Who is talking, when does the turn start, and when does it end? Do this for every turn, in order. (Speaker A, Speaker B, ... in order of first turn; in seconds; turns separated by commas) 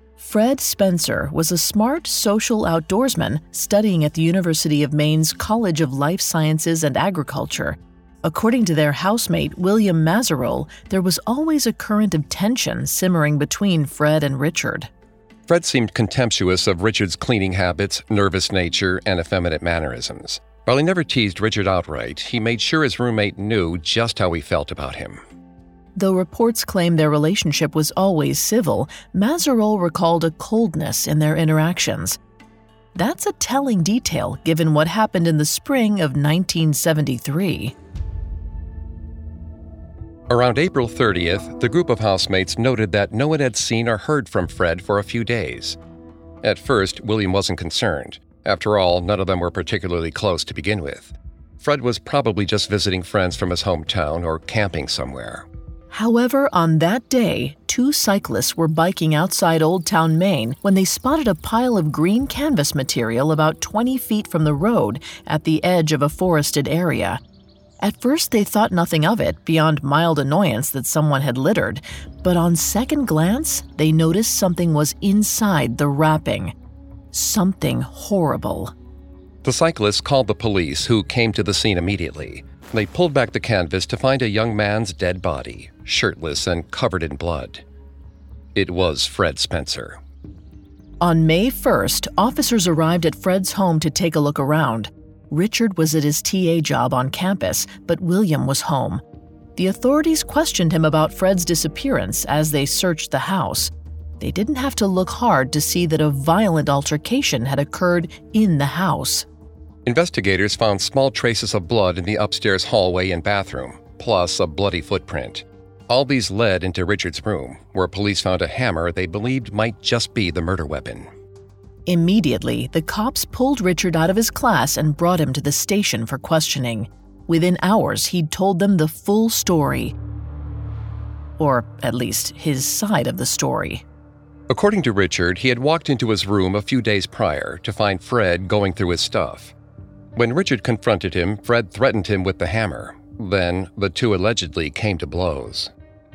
Speaker A: 0.2-14.9, Speaker B: 15.5-25.2, Speaker A: 25.9-32.2, Speaker A: 32.9-37.7, Speaker B: 40.3-45.8, Speaker B: 46.4-55.5, Speaker A: 55.9-67.2, Speaker A: 67.8-76.5, Speaker A: 77.1-78.7, Speaker B: 79.4-87.6, Speaker B: 88.5-90.0, Speaker A: 91.0-99.0, Speaker A: 99.5-109.2, Speaker B: 109.8-121.1, Speaker A: 121.9-129.9, Speaker A: 131.4-133.8, Speaker B: 134.5-139.5, Speaker B: 140.1-145.7